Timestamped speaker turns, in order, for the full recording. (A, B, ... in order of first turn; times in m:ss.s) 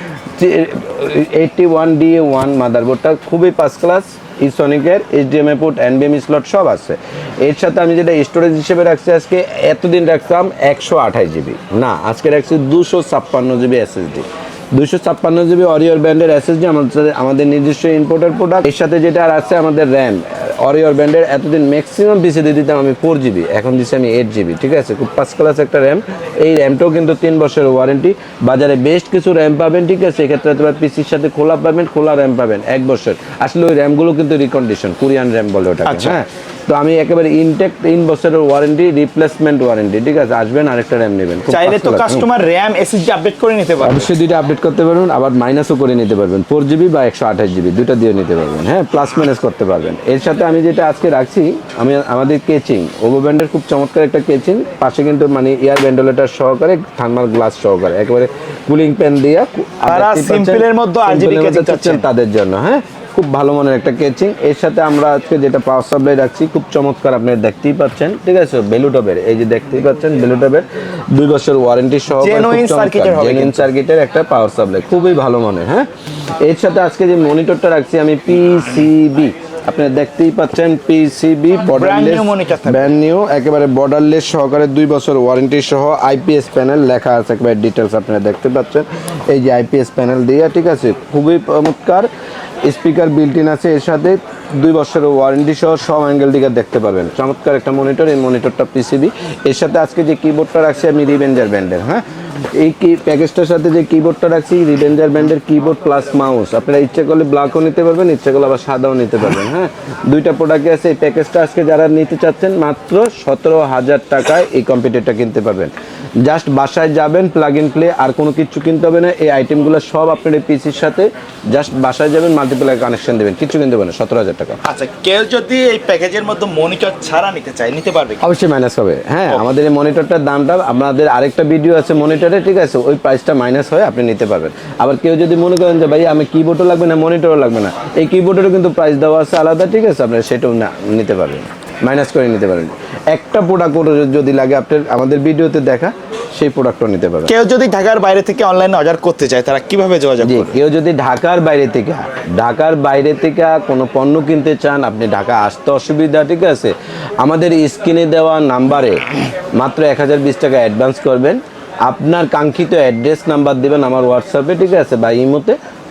0:00.4-0:42.3 A
0:35.8-0:36.2 B
0:41.5-0:44.1 B
0:43.8-1:15.9 A
0:59.9-1:02.0 B
1:12.2-1:13.7 B
1:16.4-1:32.1 A
1:21.7-1:22.9 B
1:32.6-2:04.6 A
2:04.6-2:08.2 B
2:08.2-2:27.3 A
2:27.2-2:30.6 B
2:30.2-2:45.6 A